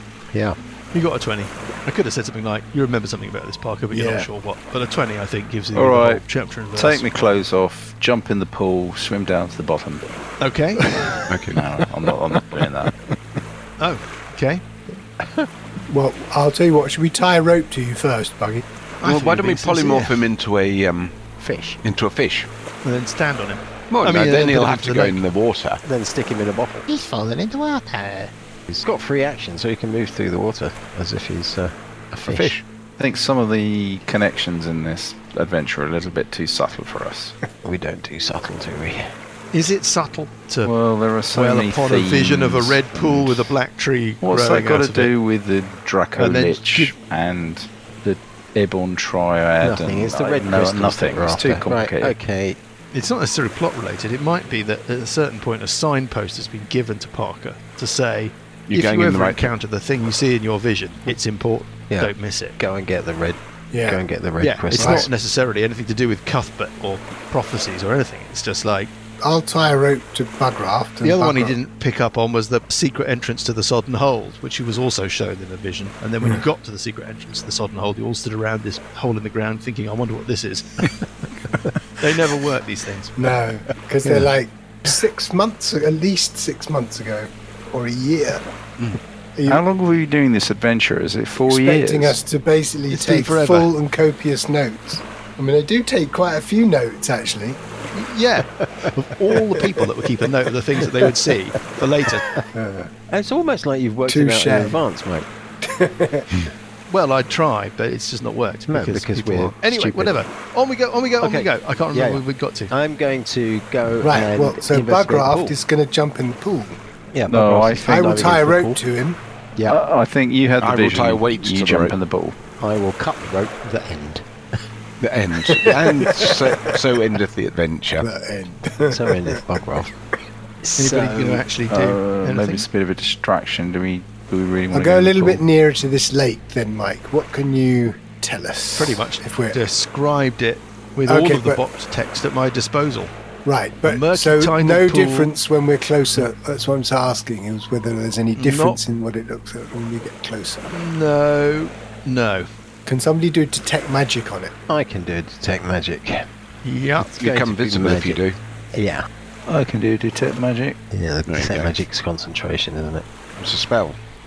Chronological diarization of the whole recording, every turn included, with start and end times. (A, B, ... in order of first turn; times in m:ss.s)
0:00.3-0:00.6 A
0:00.9-0:07.0 B
0:03.9-0:04.3 C
0:05.7-0:06.2 D
0:06.7-0:10.1 D
0:10.4-0:11.2 B
0:11.3-0:11.6 E
0:11.5-0:12.9 D
0:13.8-0:14.6 B
0:15.9-0:18.6 C
0:19.0-0:20.3 B
0:19.0-0:21.2 E
0:21.4-0:21.8 A
0:21.8-0:22.5 E
0:22.8-0:25.3 B
0:23.9-0:25.8 E
0:25.8-0:26.9 A
0:28.7-0:32.6 A
0:32.2-0:32.6 E
0:33.0-0:37.3 D
0:37.6-0:39.1 A
0:39.5-0:40.7 B
0:40.6-0:43.5 D
0:41.3-0:45.1 B
0:44.2-0:52.1 D
0:46.2-0:46.9 B
0:49.6-0:52.6 A
0:52.9-1:02.6 B
0:58.7-0:59.5 E
1:01.9-1:05.1 A
1:03.7-1:04.0 C
1:04.4-1:08.9 B
1:04.7-1:05.1 C
1:09.2-1:11.5 C
1:11.0-1:21.5 B
1:22.0-1:23.2 B
1:23.2-1:28.4 C
1:29.4-1:29.6 C
1:29.5-1:32.2 D
1:31.5-1:37.6 C
1:32.9-1:33.7 B
1:37.9-1:42.3 B
1:42.5-1:42.9 C
1:43.1-1:45.3 A
1:44.1-1:44.8 C
1:45.6-1:46.3 C
1:46.9-1:52.7 B
1:48.7-1:50.2 A
1:51.2-1:55.6 A
1:54.0-1:56.8 C
1:57.1-1:58.8 A
1:57.3-1:58.4 D
1:57.8-1:59.2 C
1:59.7-2:02.4 D
2:00.6-2:02.0 E
2:02.6-2:04.3 A
2:05.0-2:08.1 E
2:05.5-2:06.8 C
2:08.0-2:09.6 C
2:08.9-2:09.9 A
2:10.6-2:11.4 A
2:10.8-2:12.7 B
2:11.7-2:15.4 D
2:14.7-2:19.6 C
2:18.7-2:23.1 B
2:21.1-2:21.6 C
2:23.4-2:30.6 C
2:23.8-2:25.3 B
2:28.4-2:28.8 B
2:30.7-2:32.5 B
2:32.8-2:34.5 C
2:34.7-2:36.3 A
2:36.6-2:37.1 B
2:37.0-2:38.2 A
2:37.2-2:38.4 E
2:38.7-2:39.1 A
2:39.5-2:40.8 D
2:40.9-2:43.0 A
2:41.2-2:41.8 E
2:43.4-2:44.0 E